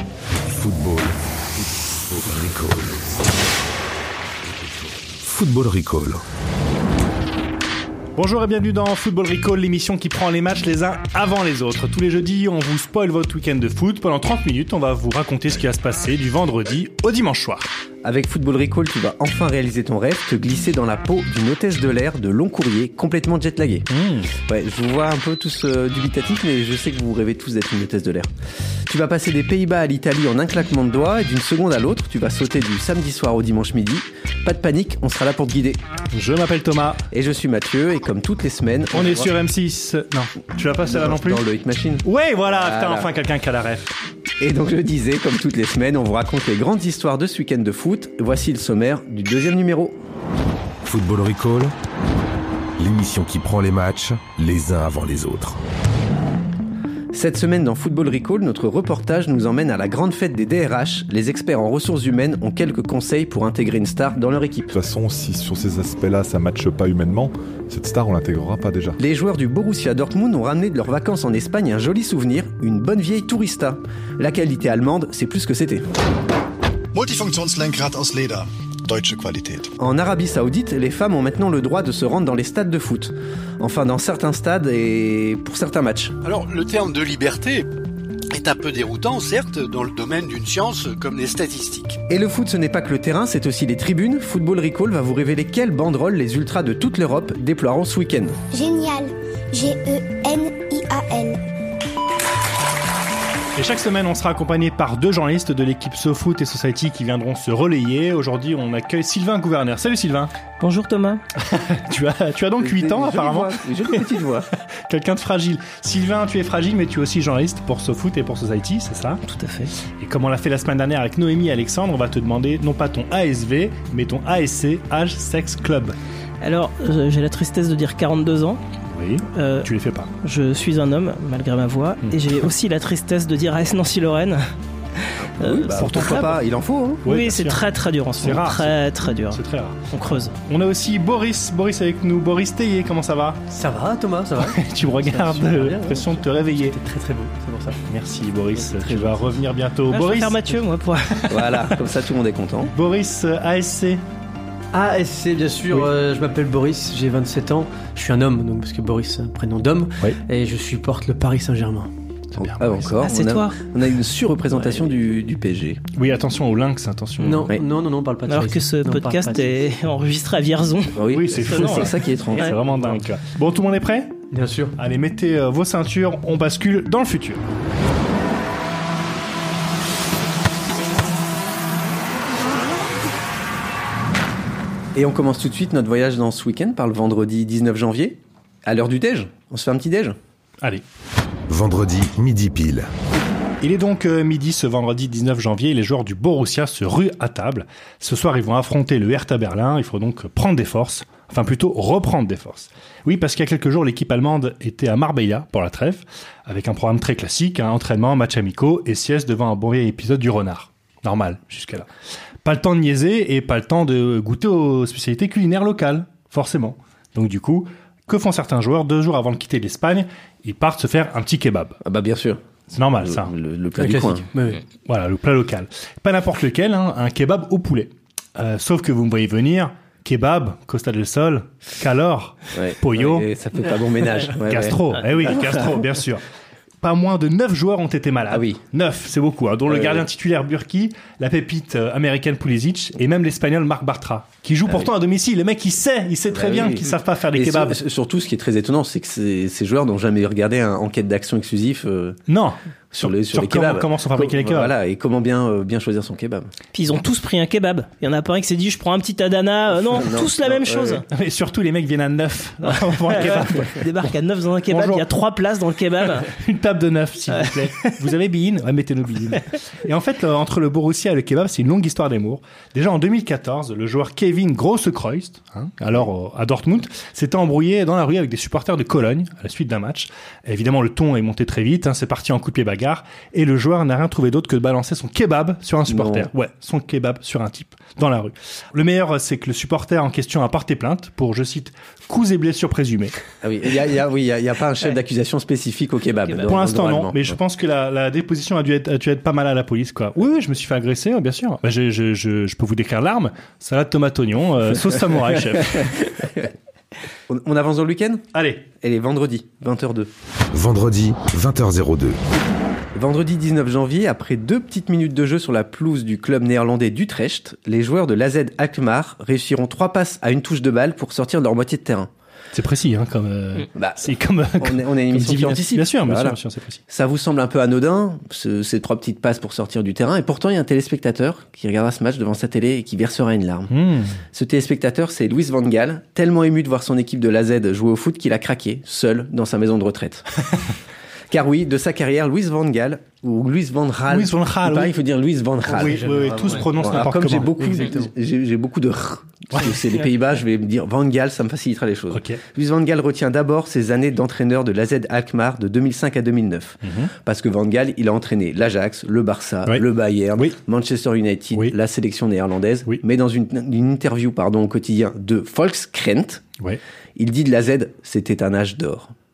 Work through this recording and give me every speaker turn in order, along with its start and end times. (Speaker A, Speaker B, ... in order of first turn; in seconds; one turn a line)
Speaker A: 0.5-3.3
Speaker A: 4.4-6.2
Speaker B: 8.2-17.7
Speaker C: 18.0-23.9
Speaker B: 23.9-24.3
Speaker C: 24.4-28.3
Speaker C: 28.9-35.8
Speaker B: 36.1-37.0
Speaker C: 37.1-39.3
Speaker B: 38.9-41.4
Speaker C: 40.8-43.1
Speaker B: 42.0-43.9
Speaker C: 44.4-50.0
Speaker A: 50.8-51.7
Speaker A: 52.8-55.6
Speaker C: 57.1-64.8
Speaker D: 64.7-69.0
Speaker C: 69.0-75.9
Speaker E: 76.9-79.7
Speaker C: 79.8-86.2
Speaker F: 86.2-87.7
Speaker F: 88.3-92.0
Speaker C: 92.1-98.4
Speaker G: 98.5-101.4
Speaker B: 103.5-110.3
Speaker H: 110.6-111.2
Speaker B: 111.4-114.0
Speaker C: 112.6-114.5
Speaker B: 114.9-119.2
Speaker H: 119.2-119.7
Speaker B: 119.9-126.0
Speaker H: 126.4-128.6
Speaker B: 128.9-130.1
Speaker H: 129.3-129.7
Speaker H: 130.2-134.4
Speaker C: 135.2-137.0
Speaker H: 135.4-135.9
Speaker B: 135.7-136.4
Speaker B: 137.0-137.6
Speaker H: 137.1-140.3
Speaker B: 138.2-143.4
Speaker I: 143.5-147.8
Speaker B: 144.4-146.8
Speaker B: 147.9-150.5
Speaker I: 148.6-149.4
Speaker H: 149.9-151.3
Speaker C: 151.3-152.7
Speaker B: 152.7-154.0
Speaker I: 154.7-161.9
Speaker B: 162.3-162.9
Speaker C: 162.4-165.8
Speaker H: 163.0-163.6
Speaker I: 164.5-164.8
Speaker B: 165.9-167.5
Speaker I: 167.2-169.5
Speaker H: 168.3-171.8
Speaker C: 170.9-172.5
Speaker B: 171.1-174.2
Speaker I: 172.3-173.0
Speaker I: 174.3-174.8
Speaker B: 174.8-177.4
Speaker C: 184.9-190.2
Speaker A: 191.5-192.9
Speaker B: 193.6-211.9
Speaker B: 212.4-221.8
Speaker C: 221.8-222.4
Speaker B: 222.7-223.3
Speaker C: 223.0-224.3
Speaker I: 223.8-224.6
Speaker B: 224.9-233.2
Speaker C: 232.5-235.8
Speaker B: 234.3-236.2
Speaker B: 236.8-247.8
Speaker C: 238.3-238.6
Speaker C: 239.7-240.1
Speaker C: 246.3-252.2
Speaker B: 252.3-254.7
Speaker C: 252.9-256.5
Speaker H: 256.7-261.0
Speaker C: 259.8-261.0
Speaker B: 261.1-263.8
Speaker H: 263.1-266.3
Speaker B: 264.7-265.0
Speaker B: 266.2-293.1
Speaker H: 267.4-267.9
Speaker C: 285.9-286.3
Speaker C: 293.4-297.4
Speaker B: 296.4-306.0
Speaker C: 305.8-306.5
Speaker C: 307.3-308.2
Speaker B: 308.3-308.6
Speaker C: 308.8-310.1
Speaker A: 310.5-312.2
Speaker C: 312.9-322.1
Speaker B: 322.5-326.8
Speaker C: 323.8-333.7
Speaker B: 333.7-334.2
Speaker C: 334.3-340.2
Speaker C: 341.3-346.0
Speaker B: 344.1-344.9
Speaker I: 345.6-348.1
Speaker B: 345.7-347.5
Speaker C: 346.8-366.4
Speaker B: 352.1-352.4
Speaker B: 356.8-357.1
Speaker C: 367.1-369.1